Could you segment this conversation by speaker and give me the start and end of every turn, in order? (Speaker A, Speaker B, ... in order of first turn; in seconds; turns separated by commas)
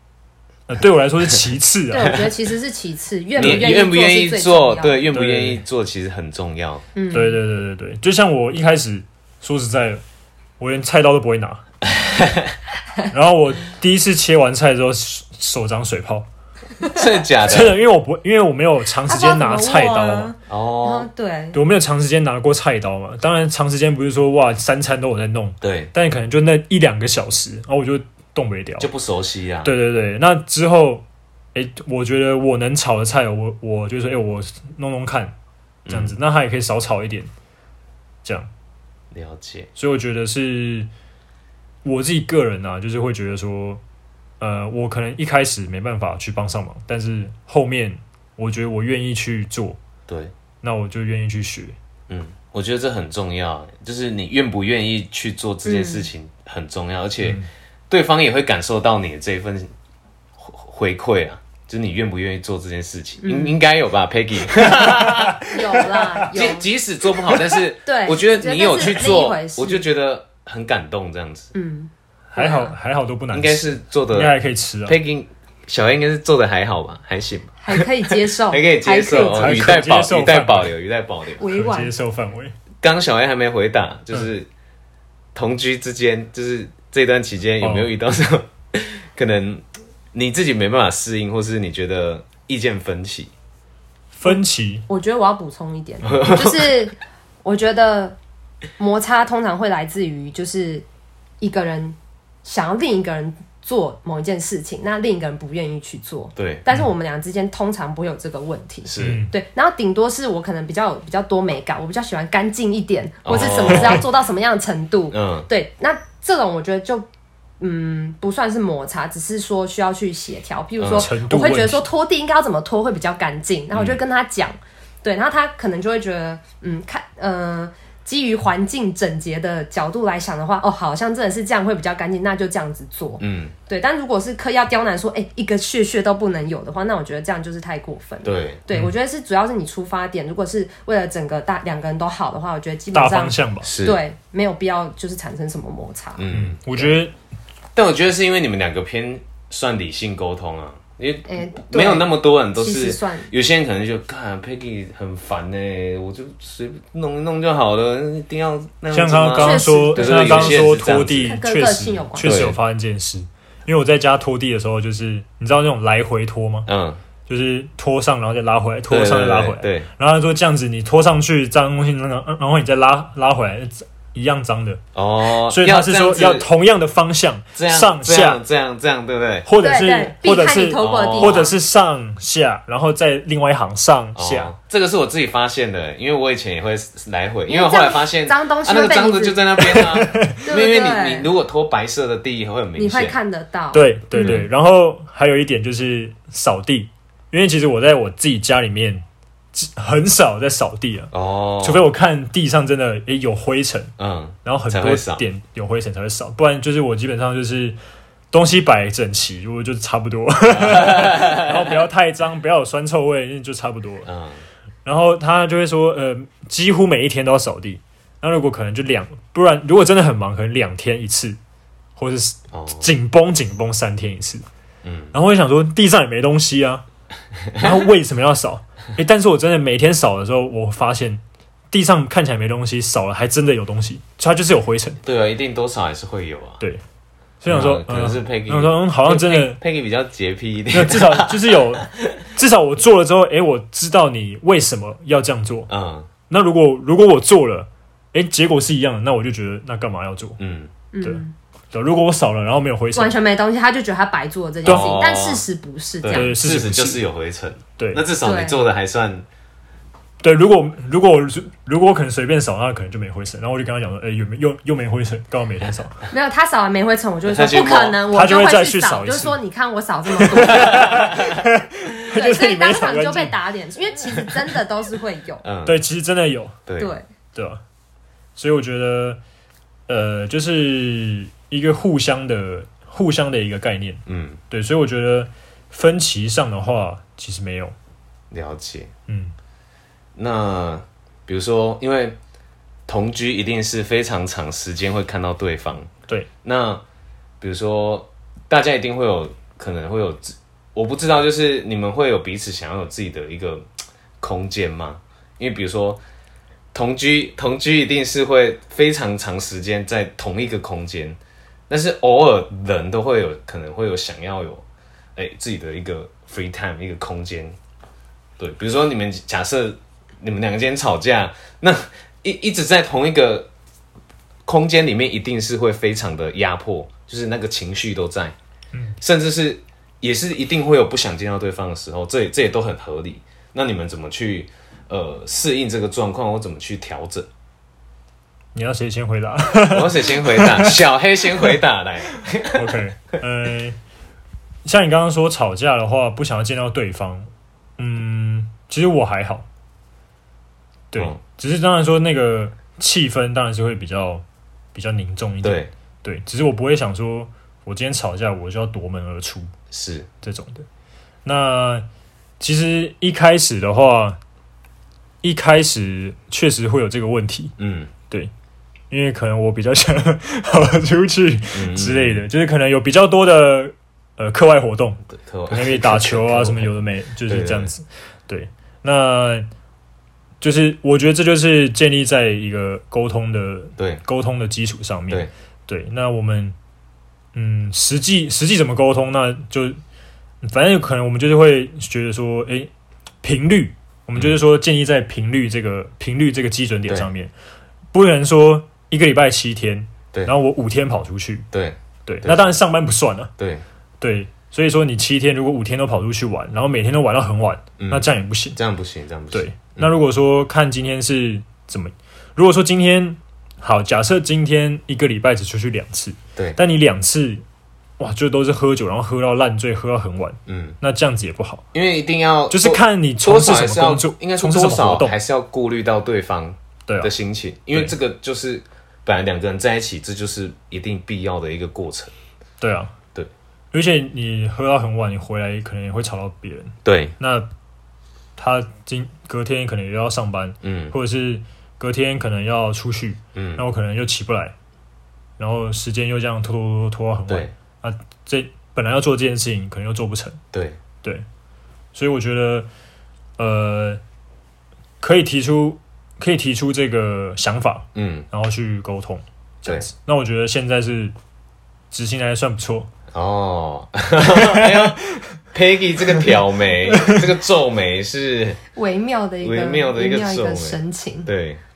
Speaker A: 0.7-2.3, Speaker B: 1.9-5.0, Speaker C: 3.4-6.8, Speaker A: 3.4-3.6, Speaker A: 5.1-5.6, Speaker B: 7.0-7.4, Speaker A: 7.1-10.0, Speaker A: 10.6-11.6, Speaker C: 11.9-12.5, Speaker A: 13.1-16.3, Speaker C: 16.9-17.8, Speaker A: 17.4-20.3, Speaker B: 19.1-21.6, Speaker C: 20.5-21.1, Speaker A: 21.5-28.9, Speaker C: 25.6-25.9, Speaker C: 28.8-29.7, Speaker A: 29.6-35.4, Speaker C: 35.9-36.1, Speaker A: 35.9-37.3, Speaker A: 38.2-38.5, Speaker C: 39.1-39.7, Speaker A: 39.8-40.9, Speaker A: 41.8-43.8, Speaker A: 44.4-49.8, Speaker C: 50.1-50.3, Speaker A: 50.6-51.8, Speaker C: 52.1-59.7, Speaker B: 55.6-56.1, Speaker C: 60.4-65.5, Speaker B: 63.2-63.6, Speaker A: 64.6-66.3, Speaker B: 65.5-66.7, Speaker C: 66.3-71.5, Speaker B: 67.8-69.8, Speaker B: 71.5-72.8, Speaker A: 72.3-75.0, Speaker C: 73.3-74.3, Speaker C: 74.9-81.4, Speaker B: 77.6-79.7, Speaker A: 79.1-80.7, Speaker B: 81.4-81.9, Speaker A: 81.5-82.5, Speaker C: 82.8-84.5, Speaker C: 85.3-93.3, Speaker A: 87.6-87.9, Speaker A: 94.1-94.9, Speaker B: 94.2-98.2, Speaker C: 96.0-96.7, Speaker B: 98.8-100.8, Speaker B: 101.4-117.1, Speaker C: 106.4-106.7, Speaker C: 108.9-109.2, Speaker A: 109.0-109.3, Speaker C: 113.2-114.1, Speaker A: 113.7-114.0, Speaker C: 115.1-115.5, Speaker B: 117.6-146.3, Speaker C: 120.8-121.1, Speaker A: 120.9-121.8, Speaker C: 123.7-124.0, Speaker C: 133.2-133.5, Speaker C: 138.2-138.6, Speaker A: 142.9-143.7, Speaker C: 143.6-144.0, Speaker C: 146.2-146.6, Speaker A: 146.3-147.1, Speaker C: 147.8-161.4, Speaker B: 151.3-153.3, Speaker A: 158.9-166.7, Speaker B: 159.4-162.4, Speaker C: 162.2-162.6, Speaker C: 166.7-167.0, Speaker A: 167.3-174.8, Speaker C: 168.9-169.9, Speaker C: 174.9-176.5, Speaker A: 175.5-178.4, Speaker C: 177.6-179.5, Speaker A: 179.5-184.5, Speaker B: 179.6-181.6, Speaker C: 180.8-181.5, Speaker C: 184.2-193.2, Speaker B: 187.5-189.9, Speaker A: 189.7-190.4, Speaker B: 190.4-191.3, Speaker B: 192.8-194.4, Speaker A: 193.7-203.9, Speaker C: 194.2-194.4, Speaker C: 201.1-201.9, Speaker C: 204.0-205.2, Speaker A: 204.4-207.8, Speaker A: 208.3-214.1, Speaker C: 210.5-211.6, Speaker C: 214.0-214.4, Speaker A: 214.8-221.4, Speaker A: 222.0-224.4, Speaker C: 222.5-222.9, Speaker C: 224.8-225.1, Speaker A: 225.1-226.8, Speaker A: 227.6-235.0, Speaker C: 235.0-236.6, Speaker A: 237.4-239.6, Speaker C: 237.5-242.1, Speaker A: 240.7-245.7, Speaker C: 245.7-246.1, Speaker A: 246.3-250.4, Speaker C: 250.4-250.7, Speaker B: 250.9-251.3, Speaker A: 251.0-253.2, Speaker B: 252.9-256.3, Speaker C: 254.7-255.4, Speaker A: 254.7-255.0, Speaker C: 256.0-259.2, Speaker A: 256.1-257.0, Speaker A: 257.8-258.0, Speaker B: 258.2-258.6, Speaker A: 260.2-266.0, Speaker B: 266.1-271.1, Speaker C: 267.3-268.0, Speaker A: 268.1-269.4, Speaker A: 270.1-273.4, Speaker C: 270.4-271.4, Speaker B: 272.1-275.4, Speaker C: 275.4-275.8, Speaker A: 275.6-276.6, Speaker C: 276.7-276.9, Speaker A: 277.4-277.6, Speaker A: 278.4-279.2, Speaker A: 279.9-287.8, Speaker C: 284.1-284.4, Speaker C: 288.3-288.9, Speaker A: 289.1-289.4, Speaker C: 290.2-292.2, Speaker C: 292.9-295.9, Speaker C: 296.4-296.8, Speaker C: 297.4-303.7, Speaker C: 304.2-306.0, Speaker C: 306.7-311.2, Speaker C: 311.7-314.6, Speaker C: 315.2-317.6, Speaker C: 318.4-323.5, Speaker C: 324.5-328.4, Speaker C: 329.0-337.3, Speaker A: 338.5-340.8, Speaker C: 339.7-342.7, Speaker A: 342.5-343.8, Speaker A: 344.6-349.5, Speaker A: 350.9-359.5, Speaker C: 355.4-355.7, Speaker C: 359.7-360.1, Speaker A: 360.2-360.7, Speaker A: 361.2-361.9, Speaker A: 362.4-364.2, Speaker A: 365.2-367.6, Speaker C: 367.6-367.9, Speaker A: 368.9-379.5, Speaker C: 371.5-372.2, Speaker C: 375.1-376.7, Speaker C: 377.3-377.7, Speaker A: 380.4-386.6, Speaker A: 387.3-389.8, Speaker A: 390.4-392.7, Speaker A: 393.2-397.3, Speaker A: 397.9-401.5, Speaker C: 401.5-402.6, Speaker A: 402.1-403.3, Speaker C: 403.4-403.6, Speaker A: 404.0-408.6, Speaker C: 407.8-409.9, Speaker A: 409.3-417.4, Speaker A: 418.0-421.6, Speaker C: 420.5-420.8, Speaker C: 421.7-432.1, Speaker A: 422.5-425.2, Speaker A: 426.9-427.1, Speaker A: 432.6-432.9, Speaker A: 433.7-437.5, Speaker C: 436.9-437.1, Speaker A: 438.4-444.6, Speaker C: 440.6-440.9, Speaker C: 443.4-443.6, Speaker A: 445.4-450.4, Speaker C: 447.3-447.5, Speaker C: 450.5-450.8, Speaker A: 451.9-452.7, Speaker A: 453.4-454.0, Speaker A: 455.0-461.1, Speaker C: 457.9-458.3, Speaker A: 461.9-462.9, Speaker C: 463.1-468.6, Speaker A: 464.3-465.2, Speaker B: 468.8-471.3, Speaker C: 469.4-471.6